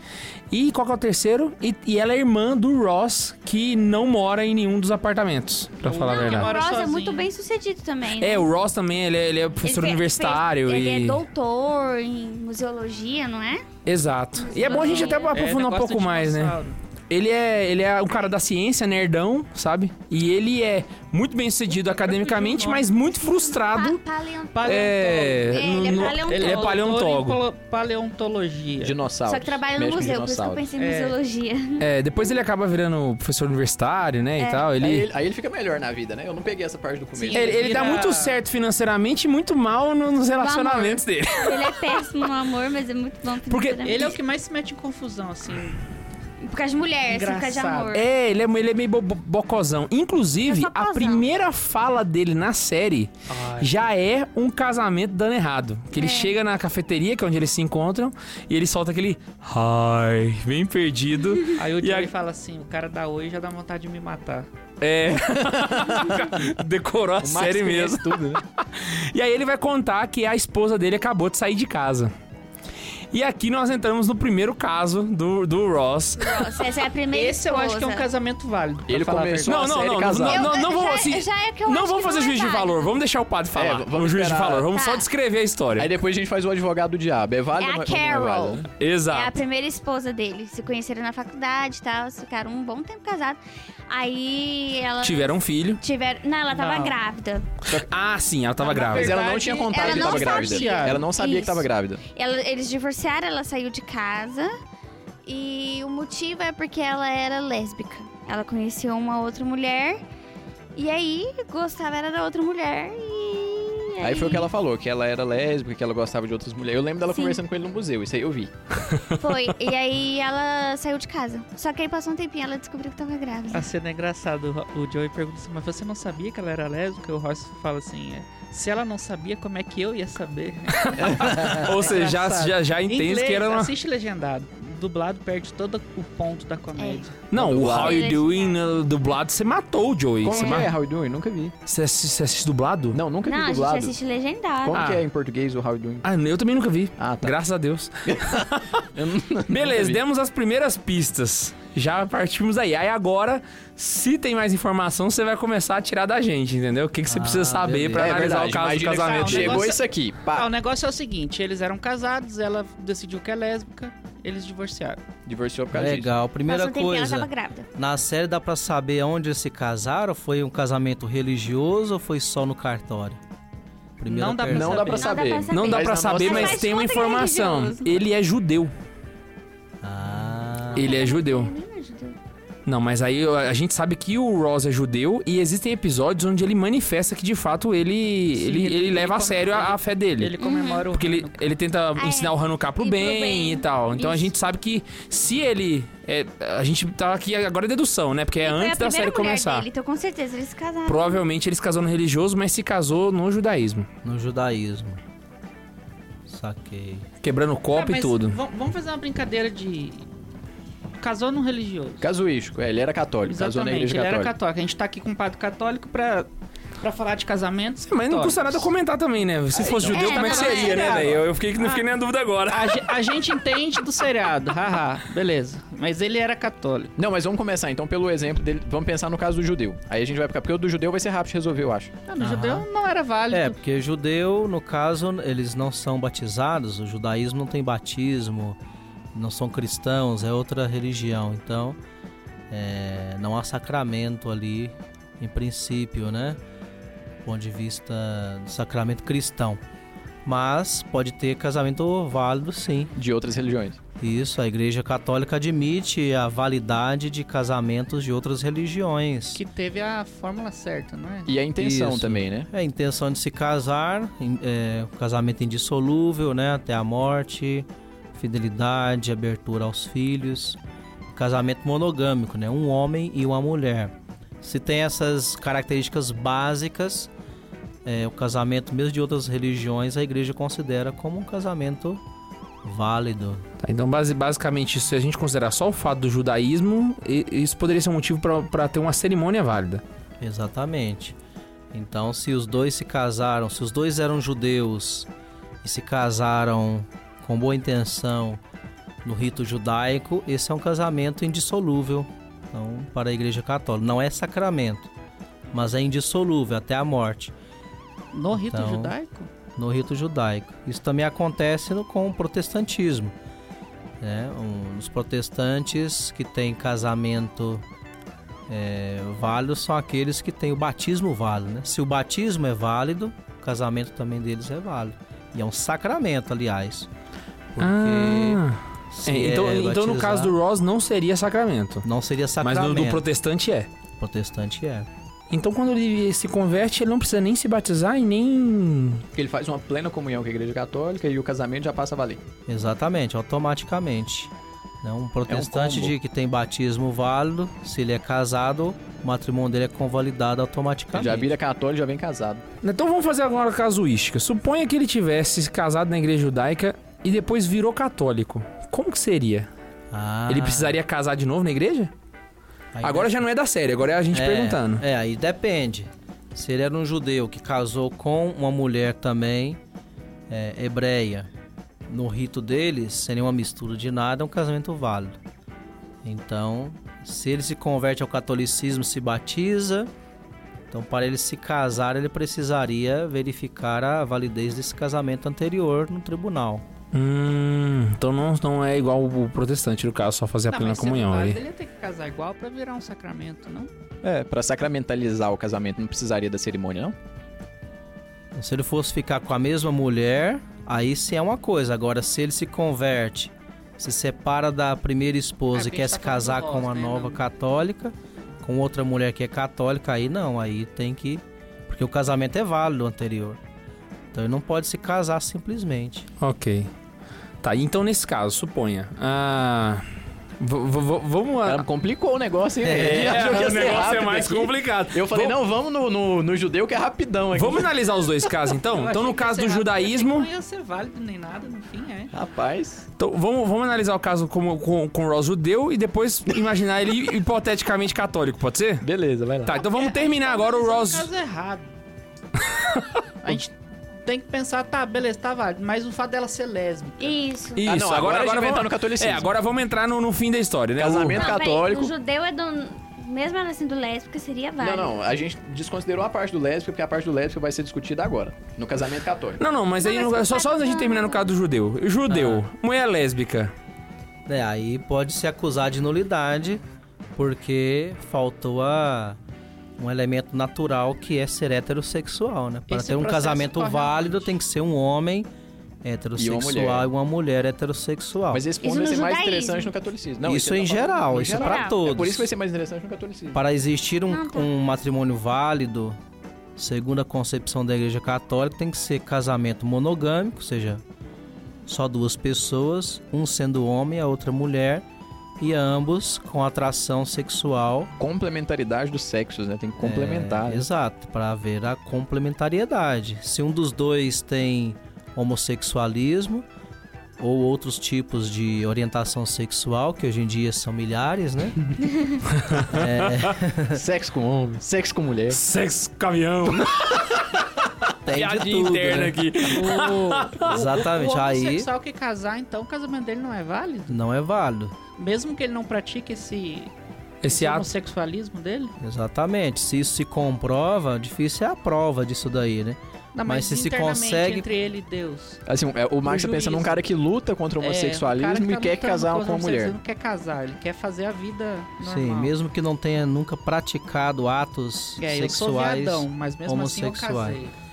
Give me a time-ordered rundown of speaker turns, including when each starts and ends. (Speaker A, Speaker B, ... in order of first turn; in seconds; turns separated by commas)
Speaker A: 0.5-6.5, Speaker B: 5.8-7.3, Speaker C: 5.9-8.5, Speaker A: 8.2-11.2, Speaker C: 9.6-13.7, Speaker A: 13.8-16.5, Speaker C: 14.4-15.4, Speaker B: 14.6-16.8, Speaker A: 17.1-24.0, Speaker B: 21.7-22.9, Speaker C: 23.0-26.8, Speaker B: 24.5-29.0, Speaker A: 24.6-27.4, Speaker D: 28.8-30.7, Speaker C: 29.2-31.9, Speaker B: 30.8-31.2, Speaker A: 31.8-35.0, Speaker C: 34.4-34.7, Speaker D: 34.8-37.7, Speaker C: 37.2-37.6, Speaker A: 37.3-42.1, Speaker B: 37.3-38.4, Speaker C: 40.3-44.1, Speaker A: 43.5-44.1, Speaker B: 43.8-45.8, Speaker C: 46.4-48.0, Speaker B: 47.0-48.0, Speaker A: 47.9-62.1, Speaker C: 50.4-51.3, Speaker B: 53.3-53.8, Speaker C: 55.9-56.4, Speaker B: 61.5-64.5, Speaker A: 64.8-72.1, Speaker D: 65.5-65.9, Speaker D: 67.2-68.4, Speaker A: 73.1-76.7, Speaker C: 76.2-78.1, Speaker B: 77.1-79.6, Speaker D: 78.9-80.5, Speaker A: 79.4-85.9, Speaker C: 80.2-82.9, Speaker D: 83.5-84.7, Speaker C: 84.7-85.1, Speaker D: 85.8-88.6, Speaker C: 87.6-97.5, Speaker A: 88.8-89.3, Speaker A: 95.0-95.8, Speaker B: 96.5-97.0, Speaker A: 97.7-99.1, Speaker B: 98.6-101.0, Speaker D: 98.9-102.0, Speaker C: 99.7-104.5, Speaker C: 105.2-110.0, Speaker C: 110.8-114.5, Speaker D: 114.0-118.5, Speaker C: 117.1-117.4, Speaker C: 119.1-123.7, Speaker B: 123.5-137.1, Speaker A: 130.8-133.7, Speaker C: 136.8-137.1, Speaker A: 137.3-140.7, Speaker D: 137.3-138.1, Speaker C: 137.6-138.6, Speaker D: 140.2-141.5, Speaker C: 140.3-140.6, Speaker A: 141.7-143.0, Speaker D: 142.9-143.9, Speaker C: 143.2-144.8, Speaker D: 144.6-146.1, Speaker A: 144.7-145.0, Speaker A: 146.0-148.8, Speaker D: 147.0-147.3, Speaker D: 148.1-150.0, Speaker A: 149.5-159.7, Speaker E: 157.1-158.2, Speaker D: 157.9-160.5, Speaker B: 158.9-165.0, Speaker D: 165.2-166.1, Speaker E: 165.7-173.2, Speaker C: 166.4-167.7, Speaker E: 174.0-174.9, Speaker B: 174.1-175.2, Speaker D: 174.5-176.7, Speaker C: 174.9-178.0, Speaker A: 175.5-178.7, Speaker E: 179.8-180.9, Speaker A: 180.8-181.5, Speaker C: 180.8-182.2, Speaker A: 182.7-190.4, Speaker B: 188.3-191.5, Speaker C: 190.4-190.9, Speaker A: 190.9-199.7, Speaker C: 191.9-194.3, Speaker C: 198.4-201.2, Speaker A: 200.8-203.9, Speaker E: 204.0-205.0, Speaker E: 206.2-207.1, Speaker A: 207.2-208.4, Speaker B: 207.7-210.1, Speaker B: 211.0-212.1, Speaker D: 212.0-214.3, Speaker B: 213.3-216.3, Speaker B: 216.8-218.7, Speaker A: 217.9-222.9, Speaker D: 219.6-220.1, Speaker C: 219.9-221.0, Speaker B: 219.9-221.9, Speaker D: 220.8-221.2, Speaker B: 222.5-226.9, Speaker D: 227.0-231.9, Speaker B: 232.1-233.6, Speaker E: 232.2-232.7, Speaker E: 233.3-238.6, Speaker E: 239.1-241.8, Speaker E: 242.5-246.4, Speaker E: 247.2-249.6, Speaker E: 250.2-252.9, Speaker D: 252.9-253.8, Speaker E: 254.0-259.4, Speaker B: 259.3-261.3, Speaker D: 261.2-262.5, Speaker E: 261.6-270.6, Speaker E: 271.1-277.1, Speaker E: 277.8-282.0, Speaker E: 282.6-283.4, Speaker A: 283.6-289.8, Speaker E: 290.2-291.1, Speaker E: 291.7-295.1, Speaker E: 295.6-298.4, Speaker E: 299.0-304.9, Speaker E: 305.5-307.3, Speaker B: 308.1-309.3, Speaker E: 308.3-308.9, Speaker E: 309.6-313.1, Speaker E: 314.0-317.6, Speaker E: 318.5-326.9, Speaker E: 327.5-328.4, Speaker A: 327.6-331.9, Speaker E: 328.9-330.3, Speaker E: 331.8-333.0, Speaker A: 332.4-333.7, Speaker E: 334.0-334.9, Speaker A: 335.3-339.0, Speaker D: 339.1-342.2, Speaker E: 342.5-344.3, Speaker E: 344.8-351.3, Speaker D: 345.3-345.9, Speaker D: 350.9-352.4, Speaker A: 352.6-359.5, Speaker E: 359.9-360.8, Speaker A: 360.3-361.9, Speaker E: 362.8-363.2, Speaker A: 362.8-364.8, Speaker E: 364.1-369.6, Speaker E: 370.3-371.3, Speaker E: 371.9-375.2, Speaker E: 376.0-379.9, Speaker E: 380.7-386.6, Speaker A: 386.9-391.4, Speaker B: 390.5-393.7, Speaker D: 394.0-396.9, Speaker E: 398.3-413.4, Speaker B: 405.5-407.2, Speaker E: 414.1-416.1, Speaker A: 416.2-416.7, Speaker A: 417.4-419.8, Speaker A: 420.4-421.6, Speaker D: 421.4-428.1, Speaker E: 422.6-423.3, Speaker A: 422.8-425.4, Speaker A: 427.3-430.2, Speaker B: 428.7-432.1, Speaker D: 432.1-432.9, Speaker A: 433.0-438.9, Speaker D: 438.8-439.5, Speaker A: 439.4-441.1, Speaker B: 439.5-441.7, Speaker A: 442.6-442.8, Speaker B: 443.2-447.2, Speaker C: 447.0-447.6, Speaker A: 447.6-451.3, Speaker D: 447.6-449.3, Speaker D: 450.8-451.9, Speaker C: 451.1-454.9, Speaker D: 454.6-459.4, Speaker A: 459.4-463.5, Speaker C: 459.8-461.3, Speaker E: 464.3-466.6, Speaker E: 467.1-469.2, Speaker E: 469.8-475.3, Speaker B: 472.7-474.3, Speaker E: 475.8-478.5, Speaker D: 476.2-476.9, Speaker D: 478.3-483.4, Speaker C: 478.6-479.7, Speaker E: 480.2-482.3, Speaker C: 481.3-481.7, Speaker E: 483.3-486.0, Speaker C: 484.1-484.5, Speaker E: 486.6-490.8, Speaker E: 491.7-494.8, Speaker E: 495.4-497.9, Speaker D: 498.0-500.7, Speaker E: 499.8-506.4, Speaker E: 507.2-512.1, Speaker A: 512.3-512.9, Speaker E: 512.6-513.8, Speaker D: 513.7-515.4, Speaker A: 515.3-517.1, Speaker E: 518.0-519.2, Speaker A: 518.1-520.7, Speaker B: 519.5-524.0, Speaker E: 520.4-521.7, Speaker E: 523.9-524.7, Speaker B: 525.0-526.7, Speaker A: 527.2-527.7, Speaker B: 527.2-528.8, Speaker E: 528.8-534.5, Speaker B: 533.1-535.4, Speaker D: 535.5-539.8, Speaker B: 536.0-536.8, Speaker B: 537.6-542.3, Speaker E: 541.8-547.4, Speaker B: 545.0-547.5